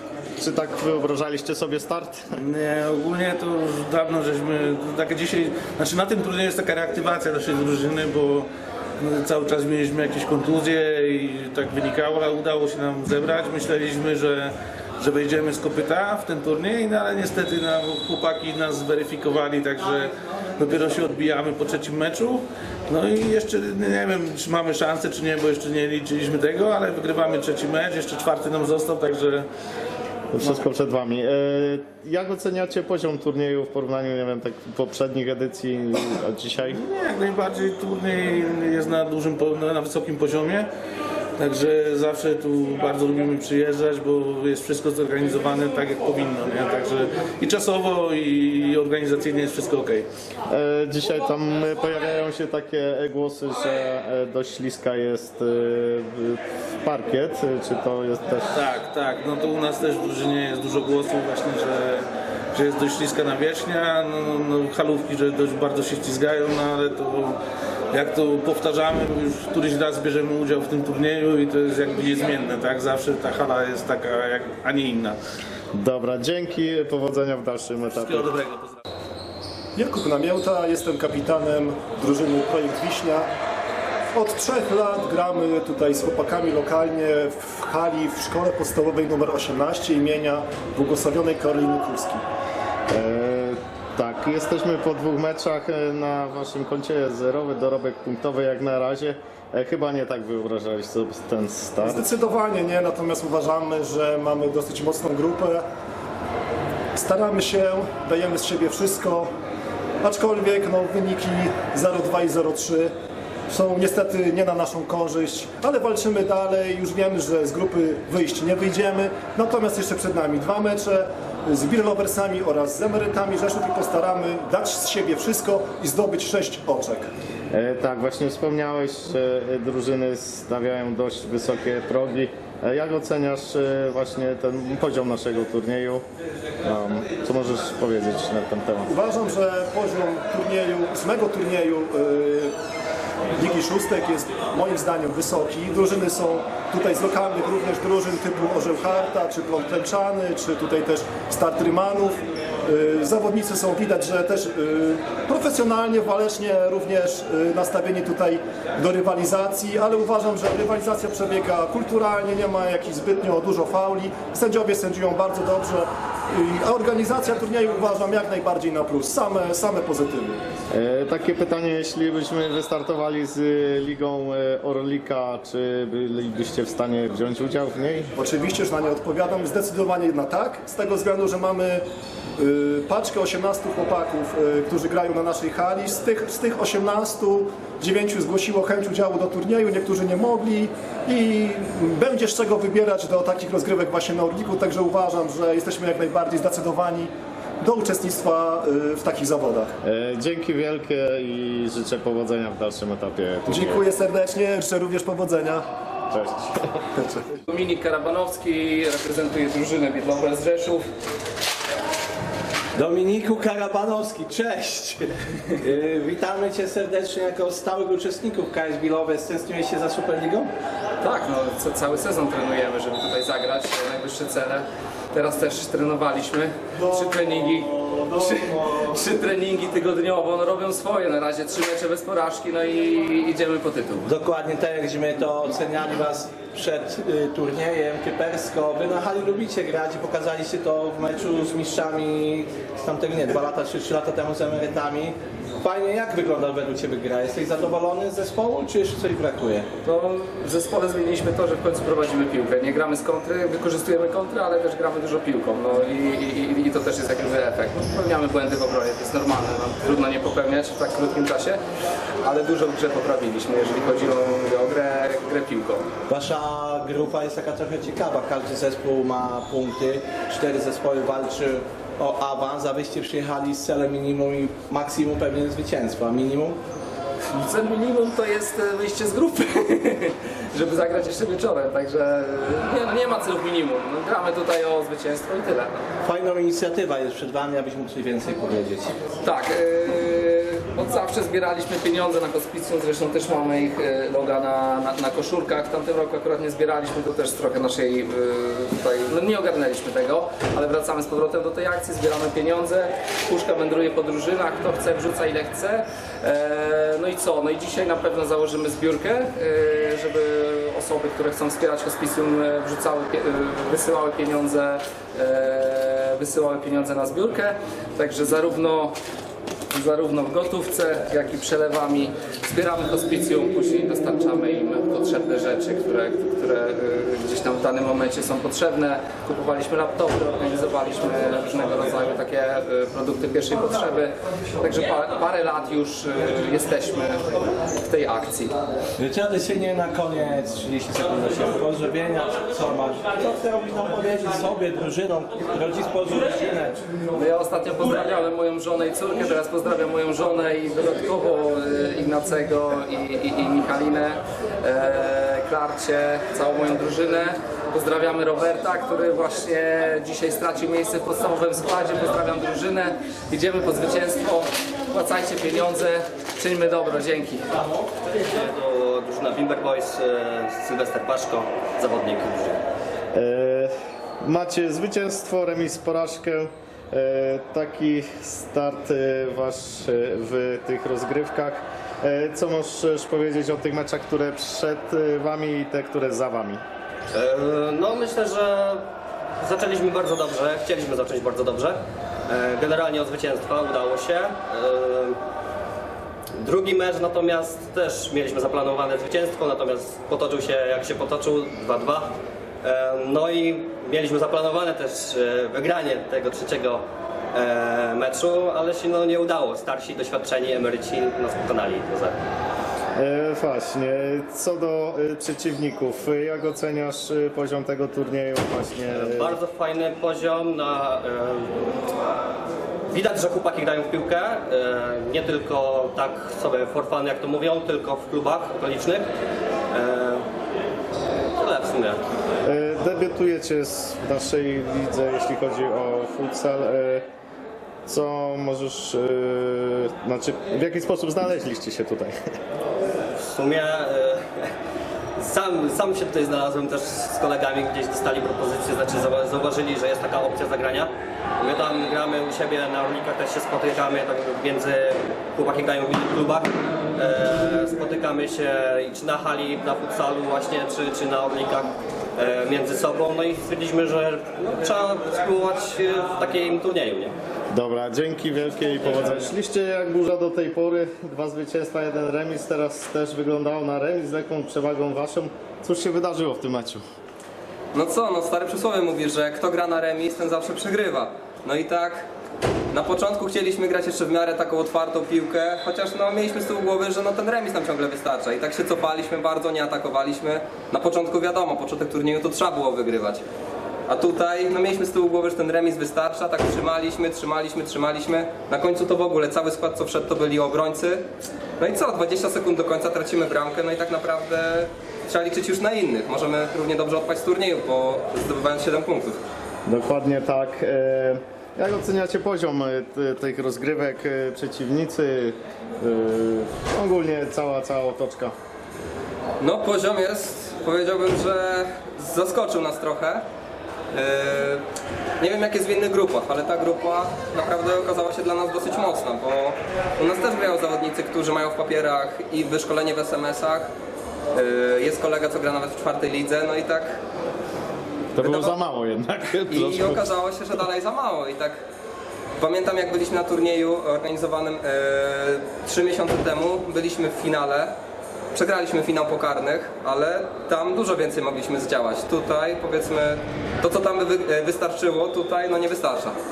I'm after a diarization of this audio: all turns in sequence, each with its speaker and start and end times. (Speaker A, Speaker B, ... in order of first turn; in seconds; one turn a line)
Speaker A: 0.4-2.3
Speaker B: 2.4-8.5
Speaker B: 9.0-29.4
Speaker A: 30.3-36.8
Speaker B: 36.7-40.7
Speaker B: 41.4-50.1
Speaker A: 50.5-58.7
Speaker B: 58.5-67.3
Speaker B: 67.9-75.2
Speaker A: 75.7-78.3
Speaker B: 77.9-78.8
Speaker C: 79.8-83.2
Speaker C: 84.1-92.2
Speaker A: 92.9-102.0
Speaker C: 101.8-105.6
Speaker C: 107.0-109.3
Speaker C: 110.0-112.9
Speaker C: 113.5-127.1
Speaker A: 127.5-136.0
Speaker A: 136.6-138.9
Speaker C: 138.8-142.5
Speaker C: 143.3-170.4
Speaker A: 170.7-178.1
Speaker C: 178.2-181.8
Speaker C: 182.4-199.7
Speaker A: 199.8-203.8
Speaker C: 203.5-205.6
Speaker A: 206.1-206.9
Speaker D: 207.5-210.8
Speaker E: 212.7-220.5
Speaker D: 221.0-234.1
Speaker E: 228.3-228.7
Speaker E: 234.1-249.7
Speaker D: 249.8-261.6
Speaker D: 262.2-265.9
Speaker E: 266.1-276.6
Speaker D: 277.3-285.7
Speaker E: 286.0-288.9
Speaker D: 289.2-318.9
Speaker D: 319.7-338.5
Speaker E: 339.0-346.8
Speaker D: 347.1-367.6
Speaker F: 368.2-372.6
Speaker A: 373.1-373.7
Speaker A: 374.2-386.6
Speaker F: 387.1-388.8
Speaker F: 389.4-391.8
Speaker F: 392.3-395.2
Speaker F: 396.4-406.8
Speaker F: 407.3-412.1
Speaker A: 412.9-419.4
Speaker F: 418.9-421.8
Speaker F: 422.9-429.1
Speaker F: 429.7-430.2
Speaker F: 431.3-432.0
Speaker A: 432.4-437.0
Speaker A: 437.9-442.1
Speaker F: 443.2-444.2
Speaker F: 445.2-467.1
Speaker A: 467.5-476.8
Speaker G: 477.7-482.0
Speaker G: 482.7-493.2
Speaker G: 493.9-501.0
Speaker G: 501.6-509.2
Speaker A: 509.6-518.3
Speaker G: 519.4-523.2
Speaker G: 523.9-524.6
Speaker G: 525.2-533.7
Speaker G: 534.3-537.0
Speaker A: 538.1-540.1
Speaker G: 538.2-538.6
Speaker G: 539.5-541.6
Speaker G: 542.4-547.7
Speaker G: 548.3-556.1